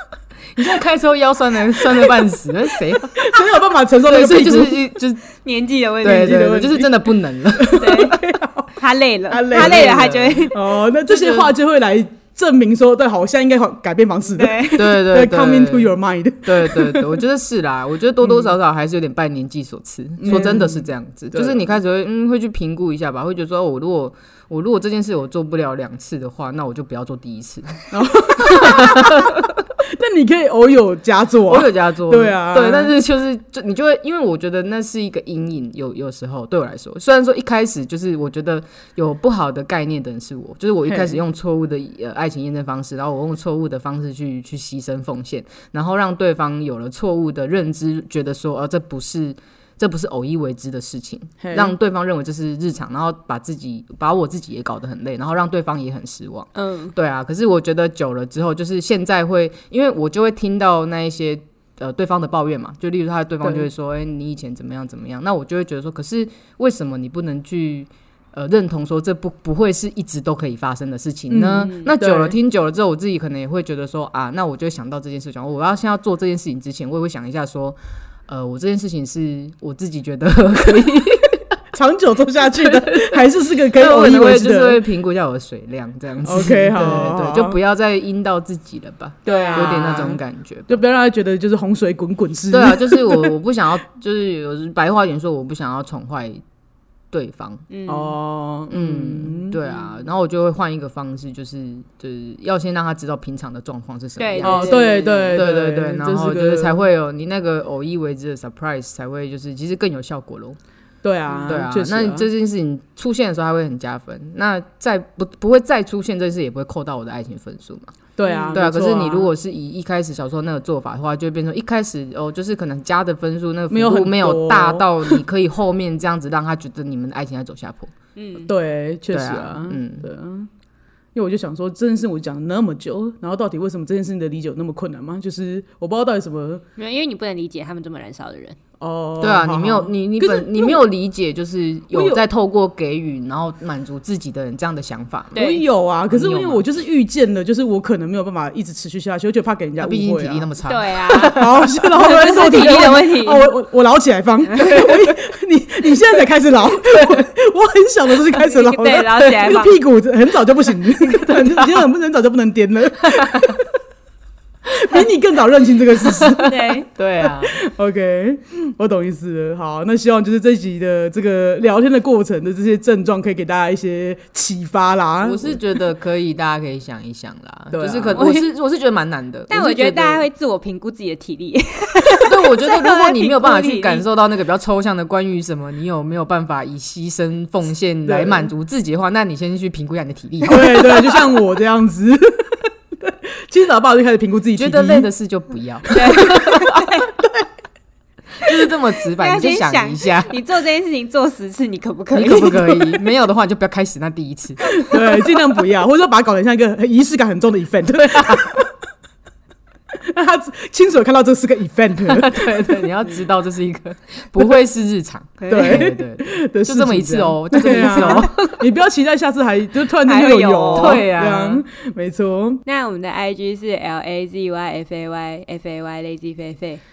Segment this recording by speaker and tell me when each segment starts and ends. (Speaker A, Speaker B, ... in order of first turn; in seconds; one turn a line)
Speaker A: 0.6-3.3
Speaker B: 3.1-4.8
Speaker A: 4.0-5.4
Speaker C: 5.4-6.6
Speaker A: 6.0-8.2
Speaker B: 6.2-8.7
Speaker C: 7.8-8.2
Speaker C: 8.8-10.6
Speaker B: 9.3-17.2
Speaker A: 9.5-10.5
Speaker A: 11.1-11.5
Speaker C: 14.3-14.9
Speaker A: 14.7-29.5
Speaker B: 18.2-18.5
Speaker B: 20.2-21.6
Speaker B: 27.9-32.9
Speaker A: 31.5-77.8
Speaker B: 40.9-41.2
Speaker B: 51.4-51.7
Speaker C: 56.6-56.9
Speaker B: 71.3-72.4
Speaker A: 78.3-81.5
Speaker B: 81.7-84.8
Speaker A: 82.4-90.7
Speaker B: 86.2-87.6
Speaker B: 89.2-93.4
Speaker C: 89.3-90.1
Speaker A: 92.5-96.4
Speaker A: 97.1-97.6
Speaker C: 97.7-98.2
Speaker B: 97.9-99.6
Speaker A: 98.7-110.6
Speaker C: 104.2-105.3
Speaker B: 104.4-106.8
Speaker B: 111.0-112.2
Speaker A: 111.5-117.9
Speaker B: 118.2-119.3
Speaker C: 118.2-118.5
Speaker A: 118.5-127.9
Speaker B: 123.7-125.2
Speaker C: 128.2-128.5
Speaker B: 128.5-130.5
Speaker A: 129.1-130.1
Speaker B: 131.2-136.6
Speaker C: 136.8-138.6
Speaker B: 138.8-140.8
Speaker A: 139.2-145.5
Speaker B: 141.9-142.2
Speaker C: 145.3-145.7
Speaker B: 145.4-150.4
Speaker A: 146.1-146.6
Speaker A: 149.8-151.6
Speaker C: 150.7-153.5
Speaker B: 151.3-163.7
Speaker C: 158.4-159.8
Speaker A: 161.3-161.8
Speaker A: 163.1-163.6
Speaker B: 164.7-166.5
Speaker A: 166.0-167.6
Speaker C: 166.4-166.9
Speaker B: 167.2-175.6
Speaker A: 175.2-180.2
Speaker B: 177.7-178.3
Speaker C: 178.2-178.5
Speaker C: 179.5-184.0
Speaker A: 182.2-191.2
Speaker B: 188.1-188.5
Speaker B: 190.4-195.1
Speaker A: 194.6-196.8
Speaker C: 195.9-197.1
Speaker A: 198.4-200.3
Speaker C: 199.1-202.9
Speaker A: 202.1-205.0
Speaker B: 204.7-208.7
Speaker A: 207.9-208.6
Speaker B: 210.0-212.8
Speaker A: 212.1-218.4
Speaker C: 215.4-215.9
Speaker B: 215.5-222.6
Speaker C: 217.9-218.5
Speaker C: 220.1-221.1
Speaker A: 220.7-221.6
Speaker C: 222.7-226.8